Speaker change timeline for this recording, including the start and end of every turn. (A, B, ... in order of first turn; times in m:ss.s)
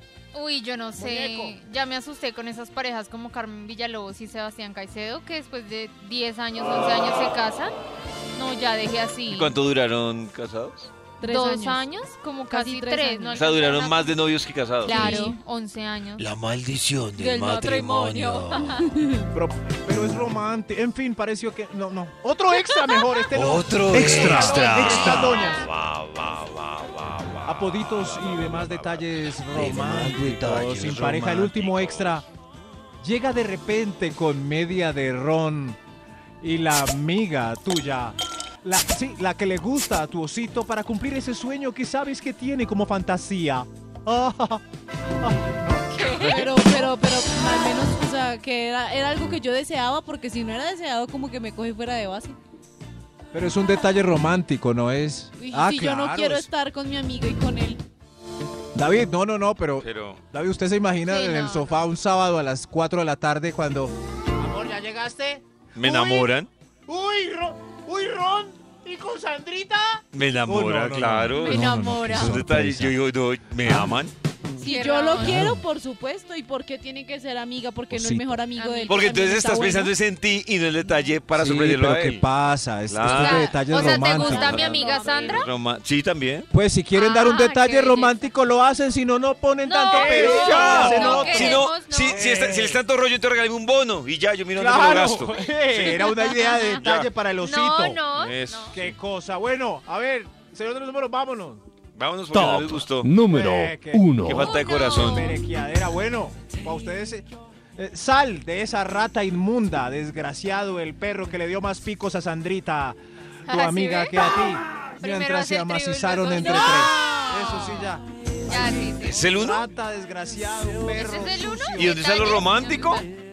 0:00.3-0:07.7 A
0:01.0-0:01.6 B
0:08.3-0:09.6 A
0:09.3-0:10.9 C
0:11.2-0:11.8 D
0:11.2-0:14.2 A
0:12.5-0:13.4 D
0:13.4-0:15.2 C
0:14.8-0:16.3 A
0:14.8-0:15.4 D
0:16.2-0:18.8 C
0:17.2-0:18.9 A
0:18.8-0:19.3 D
0:19.3-0:25.6 E
0:22.7-0:23.3 B
0:23.3-0:32.2 C
0:24.1-0:25.2 B
0:24.7-0:25.5 A
0:27.4-0:32.2 E
0:33.0-0:35.8 E
0:36.4-0:44.6 E
0:45.2-0:46.9 E
0:46.0-0:46.4 A
0:46.2-0:52.4 D
0:53.3-0:56.5 E
0:55.4-0:57.8 D
0:58.7-1:04.0 E
0:59.8-1:00.2 C
1:01.1-1:01.8 A
1:04.4-1:06.3 B
1:05.8-1:06.5 C
1:06.9-1:10.0 B
1:10.1-1:14.1 C
1:10.4-1:13.0 E
1:11.4-1:12.4 A
1:13.6-1:14.0 E
1:14.6-1:15.4 A
1:14.6-1:19.9 D
1:15.2-1:15.6 E
1:17.9-1:18.5 E
1:18.6-1:19.1 A
1:18.9-1:22.3 C
1:21.3-1:24.6 E
1:22.9-1:26.5 C
1:23.0-1:25.5 A
1:23.9-1:25.5 D
1:26.5-1:31.6 E
1:27.0-1:28.3 A
1:29.7-1:32.3 A
1:29.9-1:32.8 B
1:30.0-1:36.1 C
1:34.6-1:37.6 E
1:35.3-1:38.0 B
1:35.8-1:38.8 A
1:36.6-1:37.1 C
1:38.2-1:39.0 C
1:38.8-1:41.6 E
1:40.3-1:41.5 B
1:42.0-1:43.1 C
1:42.3-1:44.6 F
1:43.3-1:44.1 E
1:44.2-1:45.4 C
1:44.4-1:45.4 A
1:45.0-1:58.0 E
1:53.5-1:59.3 A
1:56.3-1:57.8 B
1:58.5-1:59.0 B
1:59.0-1:59.7 C
1:59.3-2:01.3 E
2:00.6-2:01.9 B
2:00.9-2:03.0 A
2:01.8-2:03.0 C